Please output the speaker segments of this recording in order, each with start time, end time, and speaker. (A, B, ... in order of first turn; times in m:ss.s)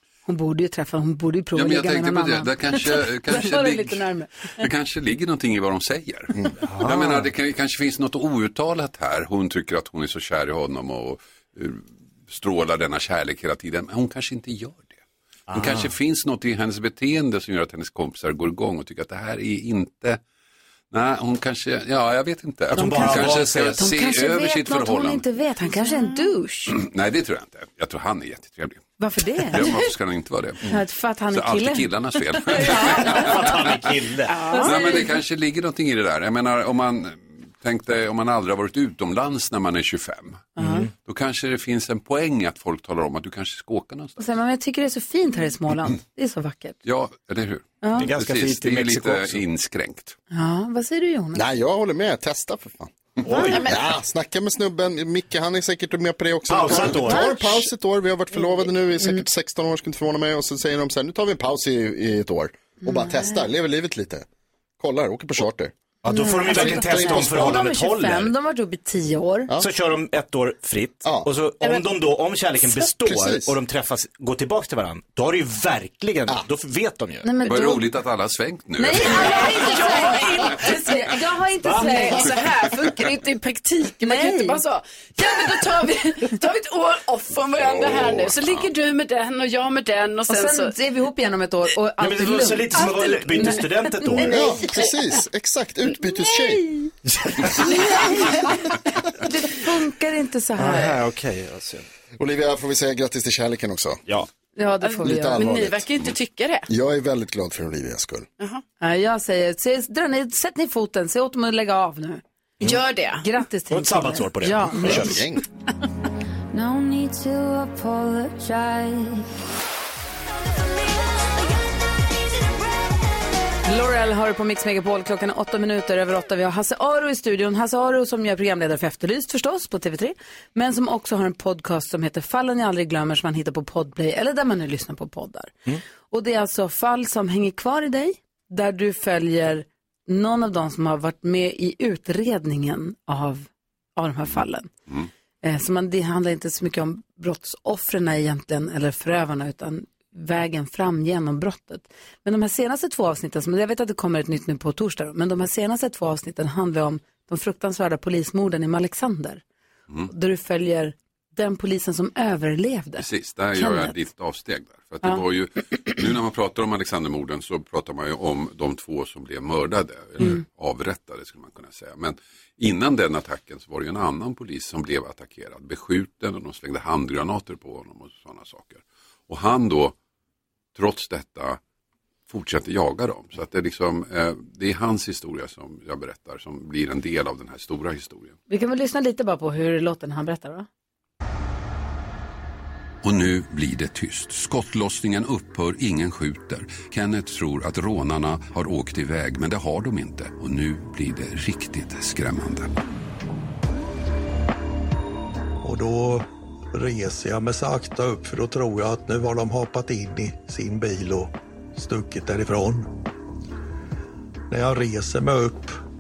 0:00.2-0:04.6 A
0:01.5-0:15.0 B
0:06.6-0:07.3 C
0:15.5-0:15.9 C
0:15.5-0:20.2 B
0:20.9-0:25.2 B
0:22.7-0:26.8 A
0:22.7-0:23.9 C
0:25.8-0:26.3 D
0:26.7-0:28.9 B
0:29.0-0:29.9 A
0:29.4-0:30.7 B
0:30.6-0:33.5 A
0:31.3-0:33.9 B
0:32.6-0:34.4 C
0:34.3-0:35.1 D
0:34.5-0:35.0 A
0:34.6-0:44.2 B
0:40.6-0:40.8 A
0:40.6-0:40.9 C
0:44.2-0:46.8 A
0:46.8-0:50.2 B
0:47.8-0:48.1 A
0:48.0-0:49.4 C
0:50.3-0:51.4 A
0:51.3-0:52.9 E
0:53.2-0:53.7 C
0:53.4-0:53.7 D
0:53.6-1:04.2 E
0:56.5-0:57.5 C
1:02.8-1:03.4 A
1:04.8-1:05.7 E
1:06.0-1:08.3 C
1:06.1-1:09.5 A
1:06.5-1:07.6 E
1:09.6-1:17.3 C
1:13.0-1:13.5 E
1:17.2-1:17.9 A
1:17.4-1:19.5 B
1:18.8-1:22.3 A
1:19.0-1:20.9 D
1:21.6-1:22.0 C
1:21.7-1:30.7 D
1:24.0-1:24.6 A
1:30.3-1:34.6 A
1:32.0-1:34.4 C
1:32.8-1:33.6 D
1:34.2-1:36.7 E
1:34.4-1:34.9 D
1:37.1-1:37.7 C
1:37.6-1:38.6 A
1:39.2-1:41.0 A
1:40.6-1:41.8 C
1:42.2-1:44.0 E
1:44.6-1:45.4 A
1:44.8-1:46.7 D
1:45.0-1:45.9 E
1:46.7-1:48.3 E
1:48.8-1:52.7 A
1:52.6-1:53.3 D
1:53.2-1:55.2 A
1:53.7-1:55.2 C
1:54.8-1:55.4 E
1:56.5-1:59.3 F
2:03.6-2:24.7 A
2:25.4-2:39.4 A
2:40.1-2:44.0 A
2:43.0-3:00.0 B
3:00.7-3:01.6 B
3:02.3-3:08.4 B
3:08.5-3:10.7 A
3:13.0-3:22.7 B
3:25.6-3:32.9 G
3:34.5-3:35.8 G